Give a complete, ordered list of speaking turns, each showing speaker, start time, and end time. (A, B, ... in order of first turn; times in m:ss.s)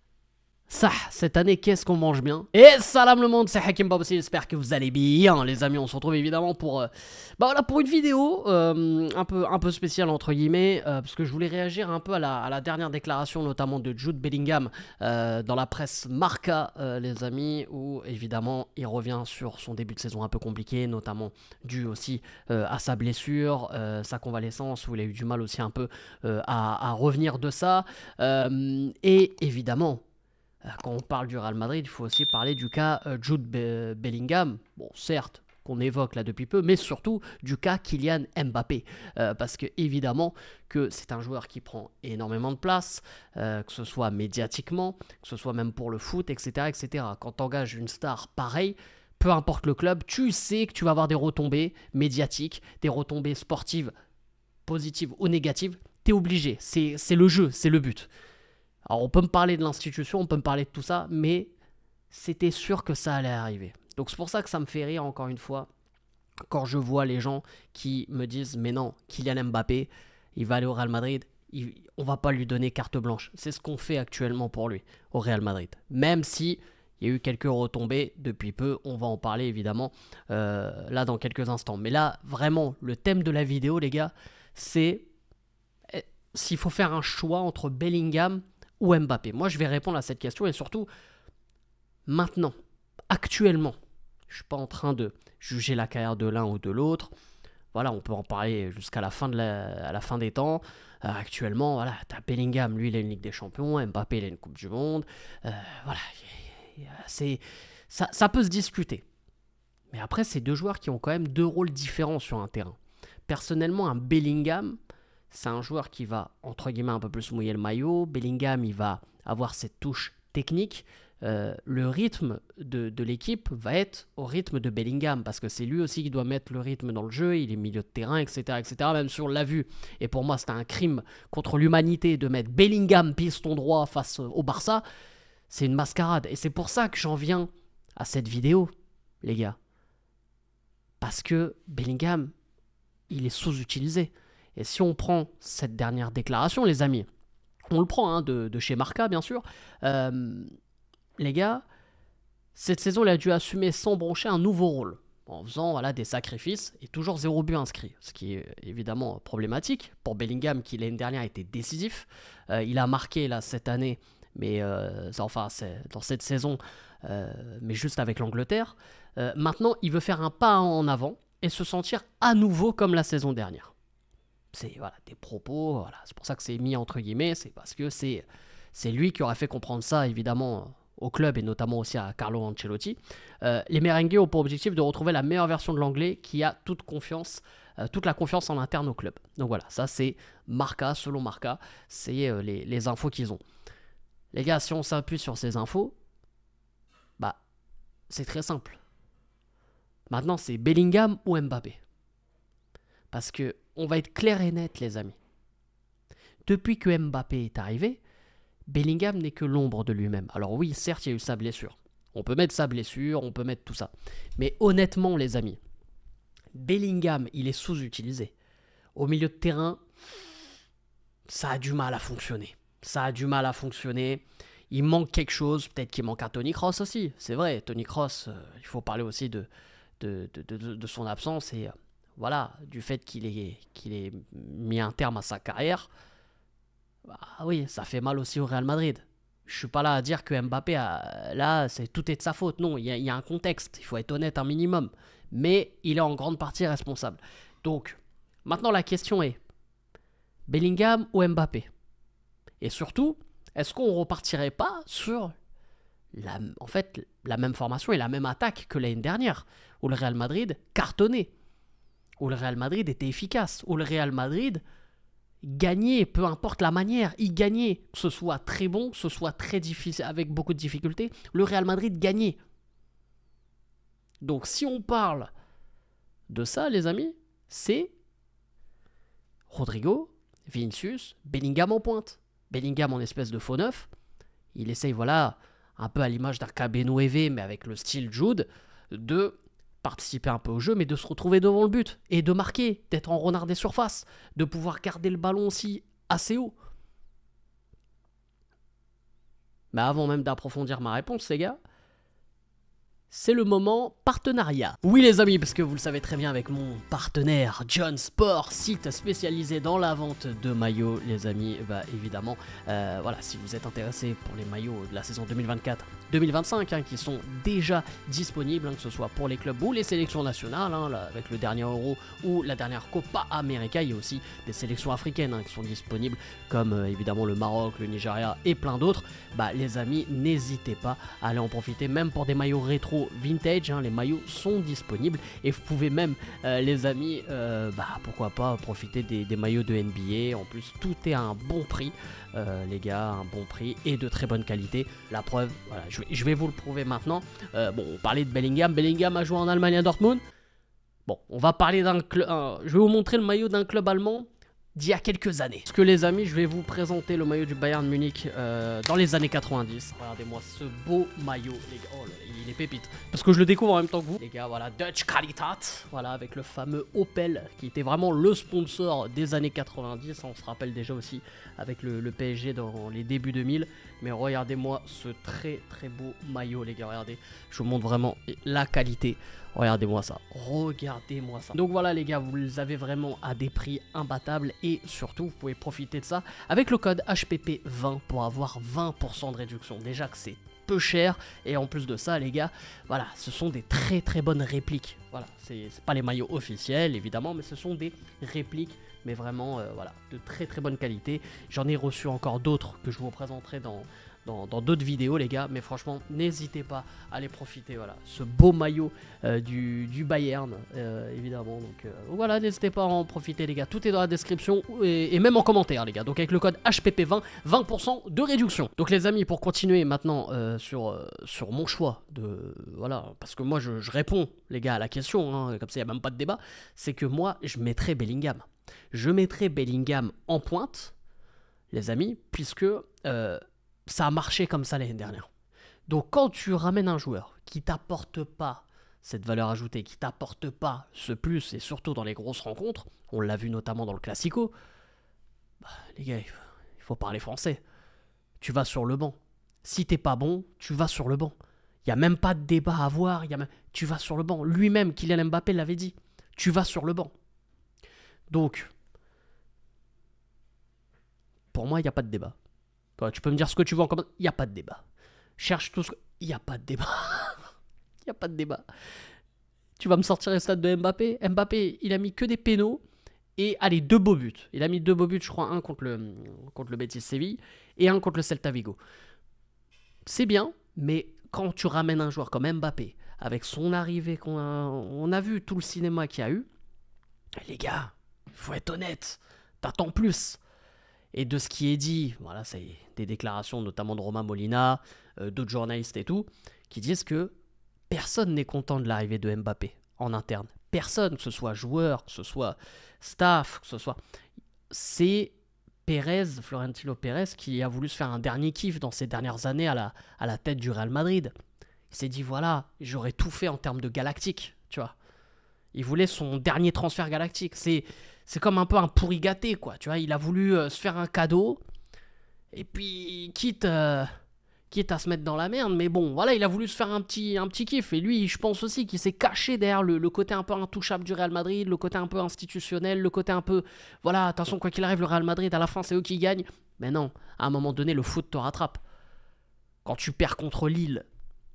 0:00.7-0:30.0 A
0:30.6-0:53.9 A
0:54.7-0:58.1 A
0:58.8-1:01.5 A
1:02.1-1:05.7 A
1:06.5-1:25.1 A
1:25.9-1:30.9 A
1:32.1-1:32.5 A
1:33.1-1:33.7 A
1:34.3-1:37.1 A
1:37.7-1:49.0 A
1:49.9-1:52.8 A
1:53.3-1:54.8 A
1:55.3-2:14.8 A
2:15.5-2:18.7 A
2:19.2-2:19.6 A
2:21.0-2:22.3 A
2:23.1-2:27.1 A
2:27.7-2:30.5 A
2:31.2-2:31.6 A
2:32.5-2:53.7 A
2:54.5-3:13.4 A
3:14.3-3:15.9 A
3:18.1-3:18.8 A
3:20.1-3:21.8 A
3:23.1-3:25.2 A
3:26.4-3:28.0 A
3:28.7-3:35.6 A
3:36.5-3:38.3 A
3:39.0-3:39.8 A
3:41.3-3:49.5 A
3:50.0-3:55.9 A
3:57.0-4:09.4 A
4:10.5-4:11.7 A
4:12.6-4:15.3 A
4:16.1-4:21.3 A
4:22.2-4:24.6 A
4:25.4-4:32.4 A
4:34.2-4:35.3 A
4:36.3-4:37.9 A
4:39.5-4:43.9 A
4:44.5-4:56.5 A
4:59.7-5:01.6 A
5:03.1-5:50.2 A
5:51.0-7:10.9 A
7:11.7-7:15.3 A
7:15.9-7:24.5 A
7:25.6-7:27.6 A
7:28.4-7:37.1 A
7:38.3-7:38.7 A
7:41.5-7:42.3 A
7:43.0-7:44.8 A
7:45.4-7:48.6 A
7:49.8-7:52.8 A
7:53.4-7:58.8 A
8:00.0-8:06.5 A
8:07.4-8:10.4 A
8:11.1-8:17.3 A
8:17.9-8:24.0 A
8:24.7-8:25.3 A
8:25.8-8:31.3 A
8:31.9-8:34.9 A
8:35.7-8:41.6 A
8:42.5-8:44.1 A
8:44.7-8:58.8 A
8:59.8-9:01.0 A